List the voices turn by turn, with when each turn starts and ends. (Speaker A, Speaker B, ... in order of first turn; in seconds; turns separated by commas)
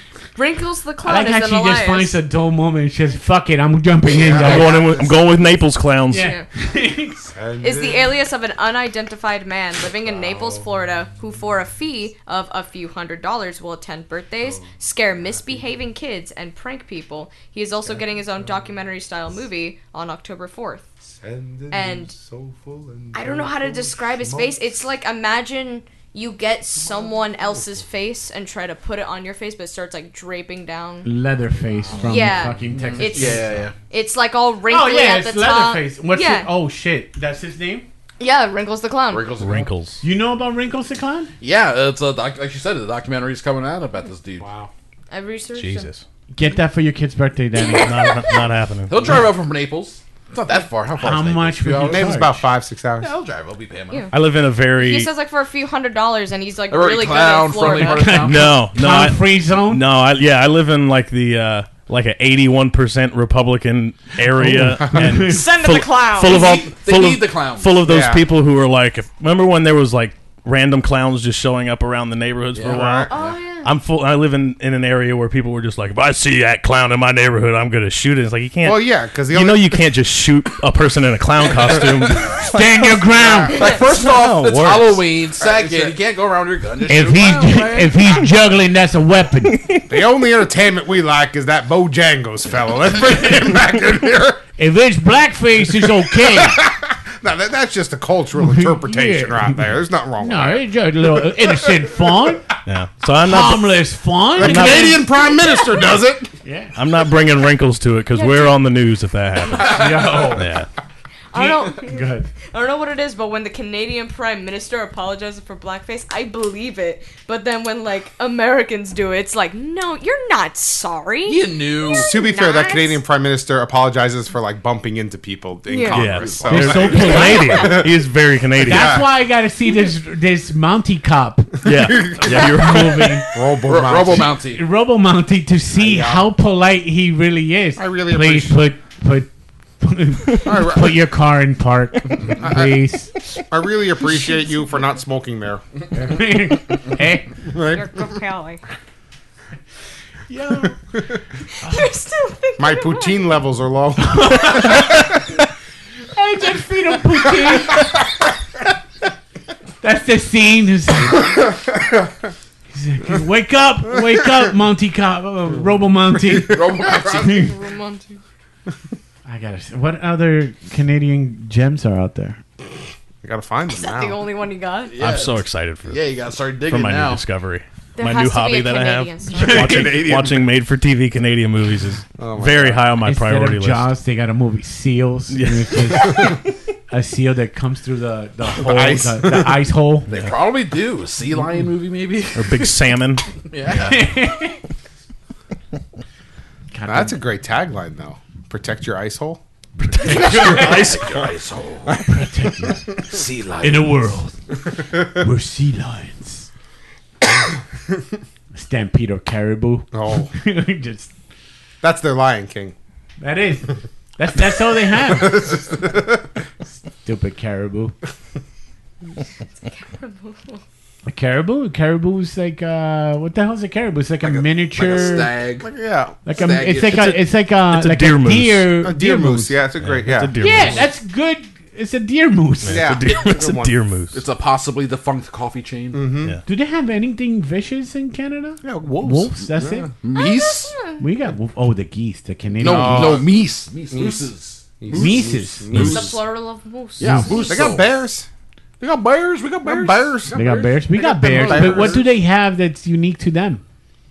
Speaker A: 0.3-2.2, Speaker B: 1.0-4.8, Speaker C: 4.2-5.2, Speaker D: 4.4-6.3, Speaker B: 6.1-7.3, Speaker A: 6.2-6.5, Speaker C: 7.2-8.1, Speaker A: 7.6-20.9, Speaker C: 10.1-10.7, Speaker C: 15.2-15.6, Speaker C: 17.9-18.2, Speaker C: 21.1-24.6, Speaker A: 21.7-22.1, Speaker A: 23.1-31.1, Speaker B: 31.0-33.5, Speaker A: 32.0-36.5, Speaker E: 32.7-33.7, Speaker B: 34.7-37.9, Speaker A: 38.2-39.3, Speaker E: 39.1-39.7, Speaker D: 39.4-40.0, Speaker B: 40.0-41.3, Speaker E: 41.4-44.5, Speaker C: 44.4-44.7, Speaker A: 45.1-45.9, Speaker D: 45.5-46.0, Speaker B: 46.3-48.0, Speaker A: 47.6-48.4, Speaker D: 47.7-49.3, Speaker E: 48.9-52.2, Speaker B: 51.0-52.4, Speaker C: 51.8-53.1, Speaker E: 53.0-54.1, Speaker D: 54.1-55.1, Speaker A: 54.7-58.3, Speaker E: 56.7-58.6, Speaker B: 57.6-59.9, Speaker D: 58.2-73.1, Speaker B: 64.4-65.4, Speaker A: 65.3-66.7, Speaker E: 66.2-67.8, Speaker C: 67.8-68.2, Speaker E: 72.5-73.4, Speaker C: 72.7-73.1, Speaker A: 73.1-73.7, Speaker D: 73.6-82.6, Speaker C: 78.6-79.8, Speaker B: 82.5-83.7, Speaker C: 83.2-83.6, Speaker E: 83.3-88.0, Speaker A: 83.5-83.8, Speaker D: 84.0-85.0, Speaker C: 85.4-86.0, Speaker B: 86.9-89.7, Speaker D: 89.5-89.9, Speaker C: 89.9-94.4, Speaker B: 94.6-96.6, Speaker C: 95.8-100.7, Speaker B: 98.4-99.7, Speaker B: 100.2-102.5, Speaker C: 101.3-101.9, Speaker D: 102.7-103.8, Speaker B: 103.2-105.0, Speaker D: 104.4-105.0, Speaker C: 104.4-106.3, Speaker B: 106.4-106.7, Speaker D: 106.8-110.7, Speaker A: 108.1-108.6, Speaker A: 109.5-109.8, Speaker B: 109.7-110.5, Speaker E: 109.9-110.2, Speaker A: 111.3-123.0, Speaker B: 111.3-112.3, Speaker E: 121.3-122.1, Speaker C: 121.9-128.0, Speaker A: 125.7-126.0, Speaker D: 125.9-129.0, Speaker E: 126.0-127.2, Speaker B: 126.5-127.7, Speaker A: 127.1-127.8, Speaker C: 128.6-129.1, Speaker B: 128.6-133.3, Speaker D: 131.6-133.3, Speaker C: 131.7-132.5, Speaker C: 133.3-134.4, Speaker E: 133.6-134.6, Speaker B: 134.5-143.1, Speaker C: 135.8-136.3, Speaker C: 137.8-138.6, Speaker C: 140.4-141.0, Speaker C: 142.4-142.7, Speaker C: 143.5-145.6, Speaker B: 145.9-147.4, Speaker C: 147.5-147.9, Speaker A: 147.6-148.6, Speaker B: 150.3-150.8, Speaker A: 151.6-153.3, Speaker B: 151.6-151.9, Speaker C: 152.6-155.1, Speaker B: 154.0-154.9, Speaker B: 156.1-157.9, Speaker B: 159.8-161.5, Speaker C: 161.7-162.1, Speaker B: 162.7-167.5, Speaker E: 166.5-167.5, Speaker A: 166.8-168.2, Speaker B: 169.2-172.4, Speaker C: 173.2-174.2, Speaker A: 173.8-174.9, Speaker E: 174.9-177.2, Speaker D: 175.0-183.9, Speaker A: 178.0-179.8, Speaker B: 179.3-179.9, Speaker C: 179.4-180.5, Speaker C: 182.2-182.9, Speaker B: 183.0-190.1, Speaker D: 185.3-186.4, Speaker C: 188.6-189.6, Speaker E: 190.1-192.8, Speaker D: 192.3-193.3, Speaker E: 193.5-194.1, Speaker B: 193.7-194.6, Speaker B: 196.7-197.2, Speaker C: 196.9-199.4, Speaker D: 199.9-201.3, Speaker B: 199.9-200.9, Speaker E: 200.1-202.1, Speaker C: 201.8-202.1, Speaker B: 202.1-202.9, Speaker E: 203.0-204.0, Speaker B: 203.6-204.4, Speaker B: 205.0-206.5, Speaker B: 208.5-211.1, Speaker C: 209.9-210.3, Speaker C: 211.8-212.7, Speaker B: 213.2-215.6, Speaker C: 215.0-216.3, Speaker B: 217.0-217.9, Speaker A: 219.7-220.6, Speaker B: 221.1-225.3, Speaker C: 224.2-226.2, Speaker E: 224.8-225.7, Speaker B: 226.2-229.6, Speaker E: 226.3-227.1, Speaker D: 226.9-228.8, Speaker C: 228.8-230.4, Speaker D: 229.8-230.9, Speaker B: 230.4-232.9, Speaker D: 232.6-234.2, Speaker C: 232.7-233.7, Speaker E: 234.1-236.2, Speaker C: 235.9-236.4, Speaker B: 236.5-239.9, Speaker C: 238.6-239.9, Speaker E: 240.0-240.8, Speaker A: 240.1-241.0, Speaker B: 241.0-243.2, Speaker E: 242.6-246.2, Speaker C: 242.6-243.4, Speaker C: 243.9-246.1, Speaker B: 244.9-245.9, Speaker D: 245.7-246.0, Speaker A: 245.9-247.8, Speaker E: 247.0-247.9, Speaker B: 247.0-247.3, Speaker C: 247.5-248.3, Speaker E: 248.8-252.1, Speaker C: 249.6-252.0, Speaker B: 250.3-253.6